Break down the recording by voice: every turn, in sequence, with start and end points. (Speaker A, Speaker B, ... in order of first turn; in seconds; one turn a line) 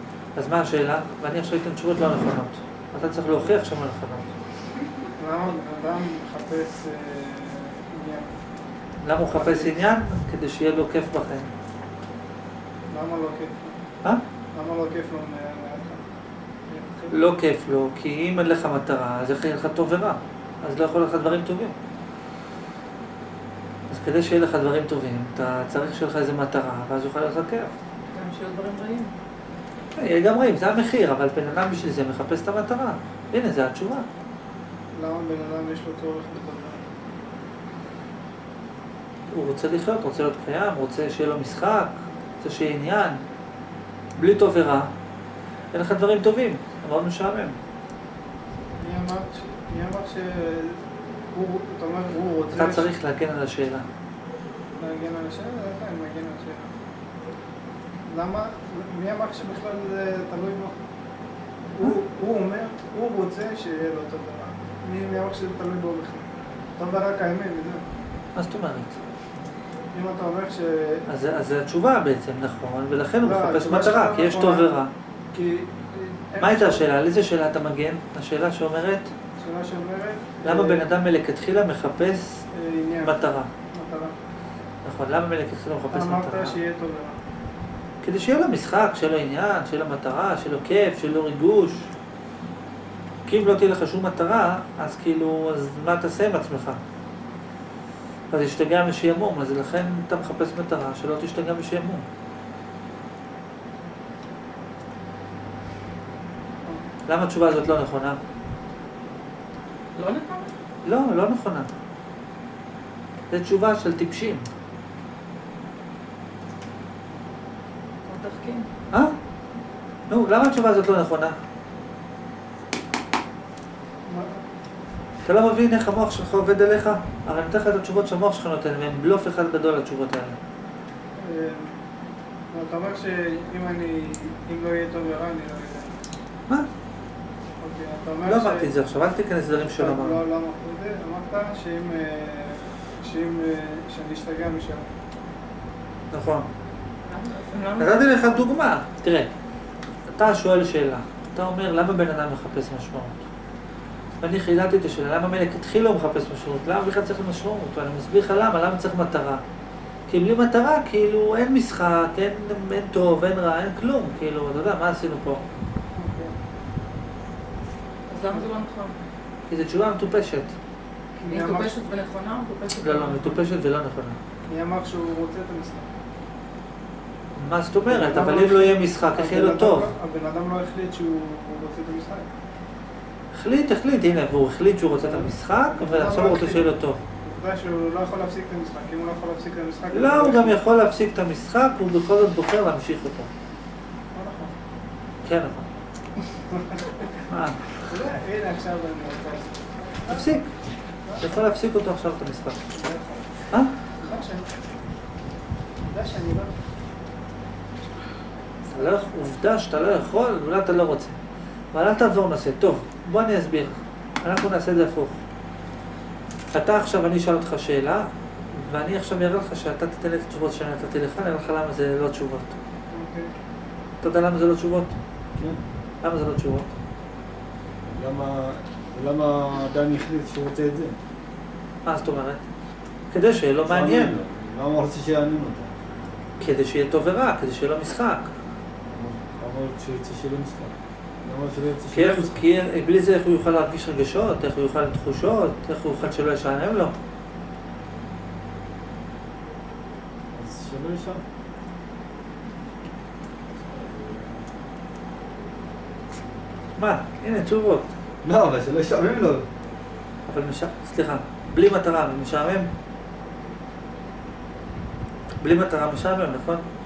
Speaker A: 0.3-4.3
Speaker B: 5.2-8.4
Speaker A: 9.0-11.5
Speaker B: 9.3-9.8
Speaker B: 12.9-13.8
Speaker B: 14.5-16.0
Speaker B: 16.7-17.1
Speaker A: 17.1-21.8
Speaker A: 23.9-27.7
Speaker C: 28.1-29.1
Speaker A: 29.9-34.0
Speaker B: 34.9-36.9
Speaker A: 39.3-43.2
Speaker A: 44.1-44.9
Speaker A: 45.7-47.5
Speaker B: 48.8-52.9
Speaker A: 52.5-53.9
Speaker B: 54.8-56.7
Speaker B: 58.0-60.8
Speaker B: 61.7-66.2
Speaker B: 66.8-67.8
Speaker A: 68.3-69.0
Speaker B: 69.9-71.0
Speaker A: 71.1-74.9
Speaker B: 73.2-74.7
Speaker B: 75.3-76.8
Speaker A: 76.4-79.1
Speaker B: 79.4-80.8
Speaker A: 80.4-82.5
Speaker B: 82.5-83.2
Speaker A: 83.0-83.5
Speaker B: 83.7-84.1
Speaker A: 84.8-86.6
Speaker B: 85.9-87.2
Speaker A: 88.0-91.9
Speaker A: 93.2-96.8
Speaker A: 98.3-102.1
Speaker A: 107.1-108.2
Speaker C: 110.0-110.5
Speaker A: 110.8-111.7
Speaker A: 113.3-114.5
Speaker C: 118.0-118.7
Speaker A: 120.1-121.3
Speaker B: 124.0-124.4
Speaker A: 125.2-130.4
Speaker B: 131.2-131.8
Speaker B: 132.5-136.0
Speaker B: 137.6-138.7
Speaker A: 138.2-140.2
Speaker B: 139.6-144.9
Speaker A: 146.1-146.5
Speaker C: 147.0-148.4
Speaker A: 147.8-149.3
Speaker A: 150.1-153.2
Speaker A: 154.2-159.4
Speaker A: 160.1-165.4
Speaker B: 165.9-166.3
Speaker C: 168.1-168.9
Speaker A: 169.5-170.5
Speaker C: 171.2-173.4
Speaker B: 171.3-171.7
Speaker A: 172.8-174.2
Speaker B: 174.5-175.9
Speaker A: 177.3-179.9
Speaker B: 177.9-182.3
Speaker A: 183.3-187.0
Speaker B: 185.0-186.7
Speaker B: 187.2-190.6
Speaker A: 189.9-193.3
Speaker B: 194.1-194.5
Speaker A: 195.2-195.7
Speaker B: 196.5-197.1
Speaker A: 197.3-197.8
Speaker B: 197.8-200.3
Speaker A: 200.1-200.6
Speaker A: 201.2-202.6
Speaker B: 202.7-203.4
Speaker B: 204.0-204.5
Speaker B: 205.8-206.5
Speaker A: 208.7-211.2
Speaker A: 211.7-215.2
Speaker A: 216.5-222.6
Speaker B: 222.9-223.3
Speaker A: 224.0-225.0
Speaker A: 226.0-226.7
Speaker D: 227.8-230.9
Speaker A: 231.8-232.4
Speaker A: 233.1-234.2
Speaker D: 233.7-235.8
Speaker A: 236.4-238.3
Speaker D: 238.9-240.7
Speaker D: 241.2-242.4
Speaker A: 241.9-246.9
Speaker D: 250.3-251.2
Speaker D: 253.6-254.6
Speaker A: 256.8-257.9
Speaker D: 258.2-259.5
Speaker A: 260.3-262.7
Speaker A: 265.4-266.6